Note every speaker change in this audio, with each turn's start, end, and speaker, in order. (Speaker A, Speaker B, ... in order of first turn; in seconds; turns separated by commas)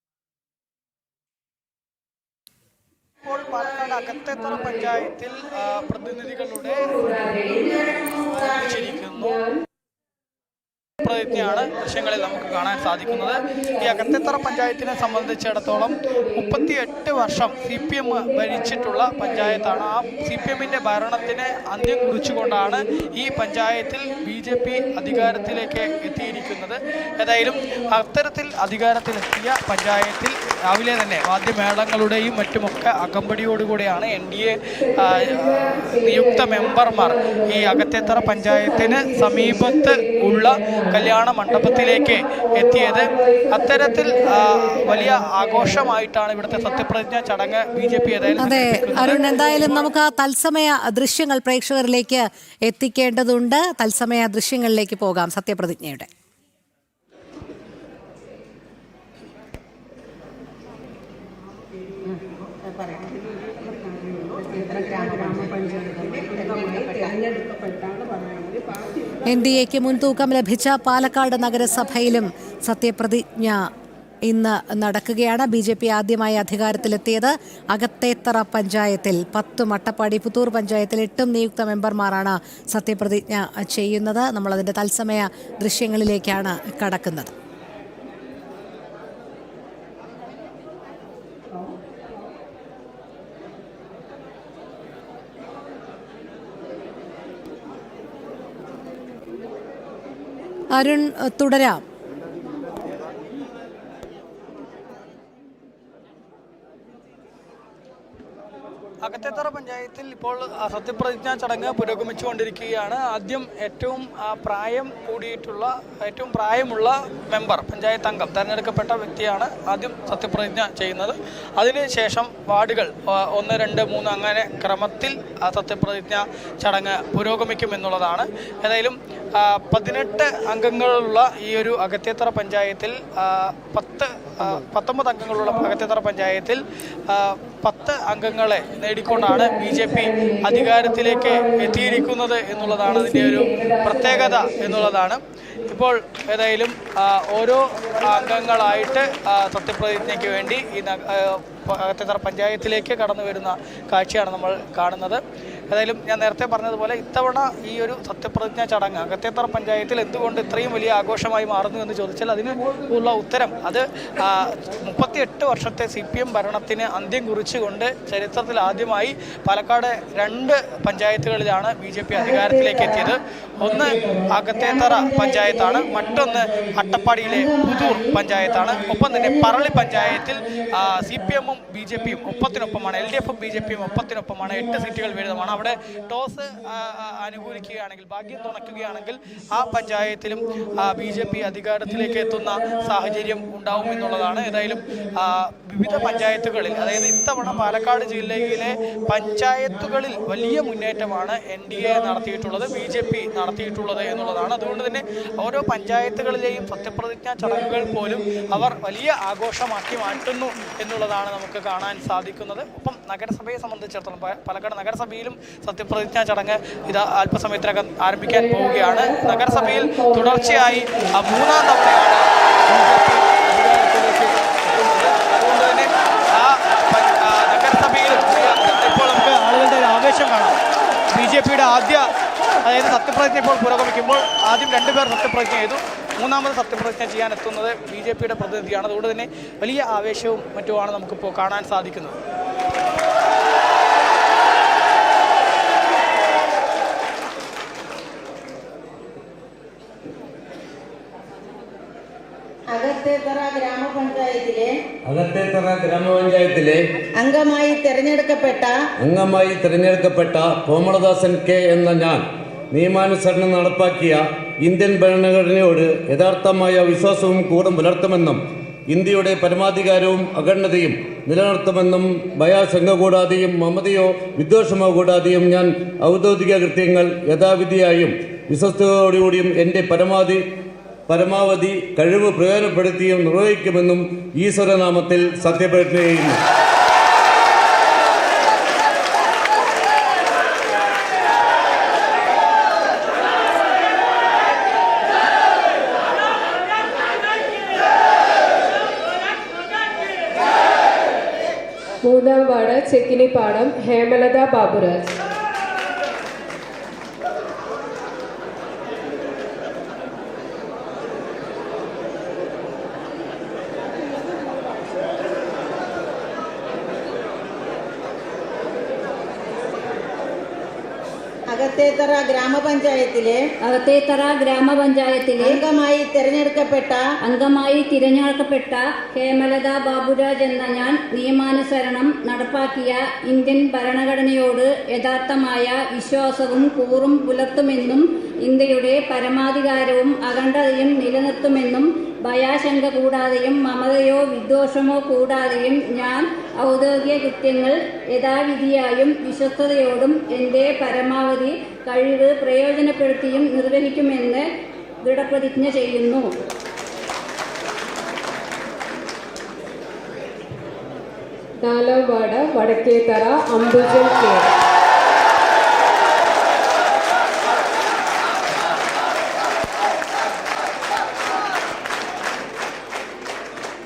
Speaker A: 3.2-7.2, Speaker B: 6.9-7.8, Speaker C: 7.7-8.1, Speaker A: 8.1-9.4, Speaker B: 9.2-9.6, Speaker A: 11.0-49.1, Speaker B: 11.1-11.5, Speaker B: 13.2-14.3, Speaker B: 15.6-16.7, Speaker B: 17.9-20.1, Speaker B: 21.8-22.7, Speaker B: 24.5-25.6, Speaker B: 34.9-45.9, Speaker B: 46.4-49.8, Speaker D: 48.4-56.1, Speaker C: 62.7-63.1, Speaker C: 64.2-67.2, Speaker D: 69.2-73.7, Speaker D: 74.2-87.3, Speaker D: 100.7-101.8, Speaker A: 109.0-230.6, Speaker B: 139.1-142.1, Speaker B: 142.7-144.9, Speaker C: 172.1-173.1, Speaker C: 173.6-173.9, Speaker C: 174.5-176.2, Speaker C: 177.2-178.2, Speaker C: 179.1-180.2, Speaker B: 218.3-221.1, Speaker A: 231.1-232.1, Speaker A: 232.6-242.2, Speaker C: 252.7-254.7, Speaker E: 255.1-256.8, Speaker C: 257.2-258.7, Speaker E: 259.0-268.4, Speaker E: 268.9-280.4, Speaker E: 281.1-286.4, Speaker B: 302.0-305.1, Speaker C: 321.5-323.4, Speaker F: 323.6-325.6, Speaker C: 325.4-327.0, Speaker F: 327.2-354.4, Speaker F: 355.0-356.3, Speaker B: 361.6-364.4